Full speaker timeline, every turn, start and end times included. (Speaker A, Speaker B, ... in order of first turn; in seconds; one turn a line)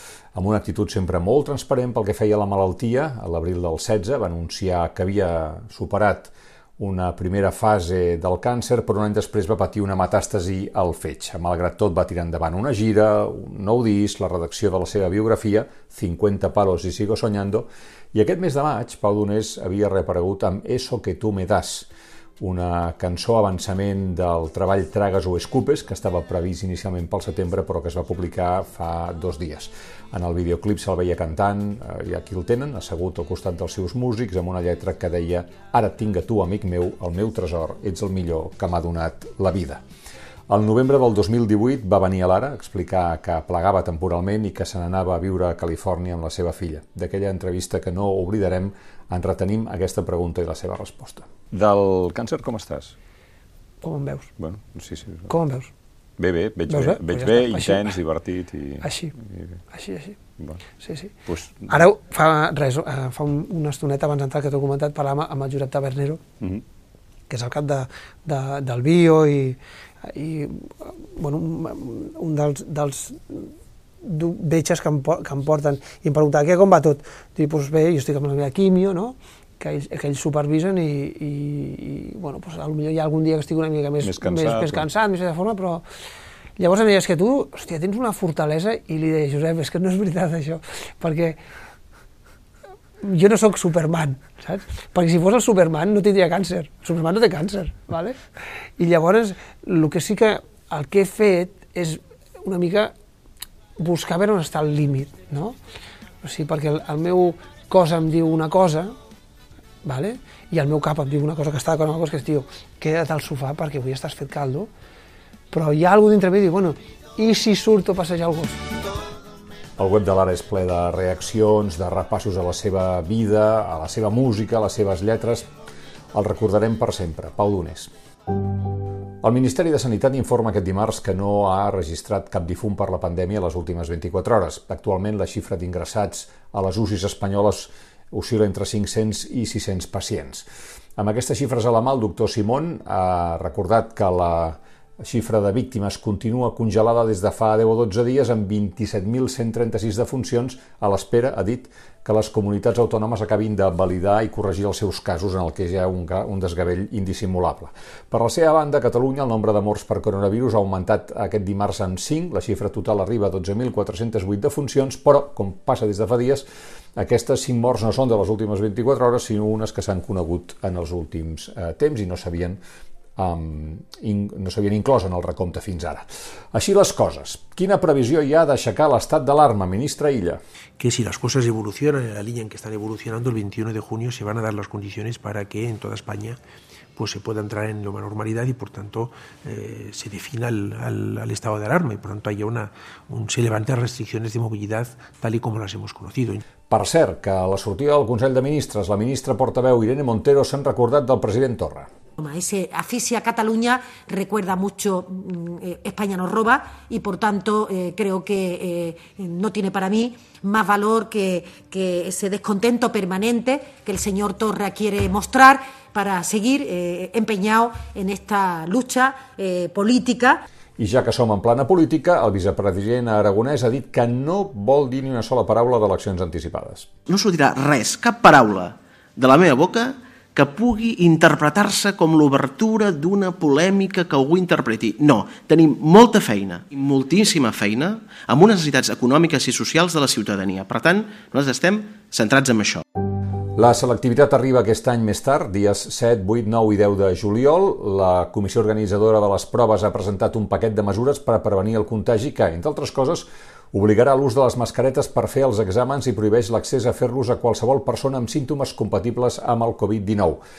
Speaker A: 0.3-21.9
Speaker A: 22.4-39.8
Speaker A: 40.5-52.9
Speaker B: 53.8-54.3
Speaker A: 54.4-55.3
Speaker B: 55.3-55.7
Speaker A: 56.2-58.8
Speaker B: 56.7-57.9
Speaker B: 58.8-59.1
Speaker B: 59.7-60.2
Speaker B: 60.8-66.2
Speaker A: 61.3-61.6
Speaker B: 67.3-73.5
Speaker B: 74.0-85.8
Speaker A: 84.0-84.8
Speaker B: 86.6-91.4
Speaker B: 93.0-98.2
Speaker B: 98.8-102.9
Speaker B: 103.8-105.5
Speaker B: 106.2-108.9
Speaker B: 109.8-114.7
Speaker B: 115.5-118.6
Speaker A: 119.8-125.5
Speaker A: 126.1-127.9
Speaker A: 129.2-140.4
Speaker A: 141.0-166.4
Speaker A: 167.0-172.6
Speaker A: 173.2-180.4
Speaker C: 180.8-186.4
Speaker C: 186.9-196.4
Speaker A: 196.7-201.9
Speaker D: 202.2-220.4
Speaker A: 220.8-226.9
Speaker E: 227.1-242.8
Speaker A: 243.6-260.4